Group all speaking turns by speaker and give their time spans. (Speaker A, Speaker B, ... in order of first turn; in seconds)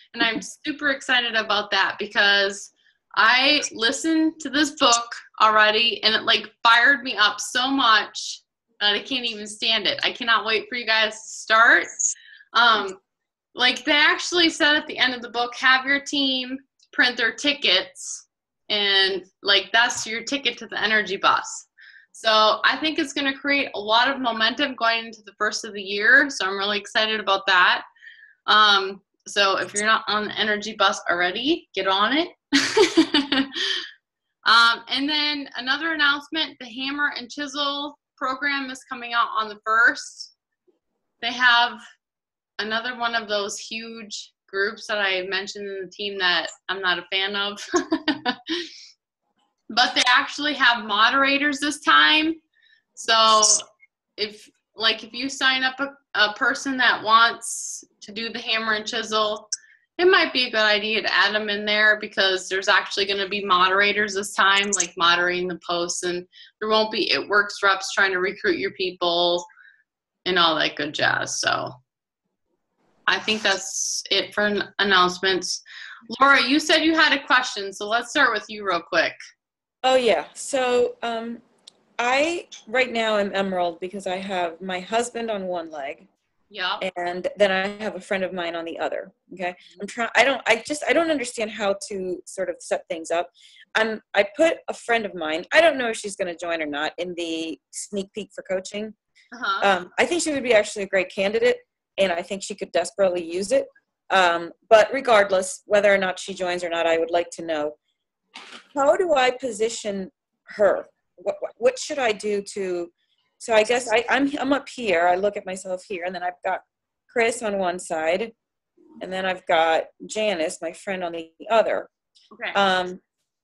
Speaker A: 0.1-11.9, 12.5-13.0, 13.6-27.9, 28.5-33.6, 34.5-40.3, 41.2-41.8, 42.6-48.6, 49.7-52.4, 53.0-53.6, 54.2-69.5, 70.2-71.8, 73.1-79.2, 86.5-86.8, 99.3-99.7, 122.3-122.6
Speaker B: 79.8-81.4, 82.0-86.1, 86.8-99.0, 99.6-107.8, 108.7-118.3, 119.0-121.9, 122.5-123.0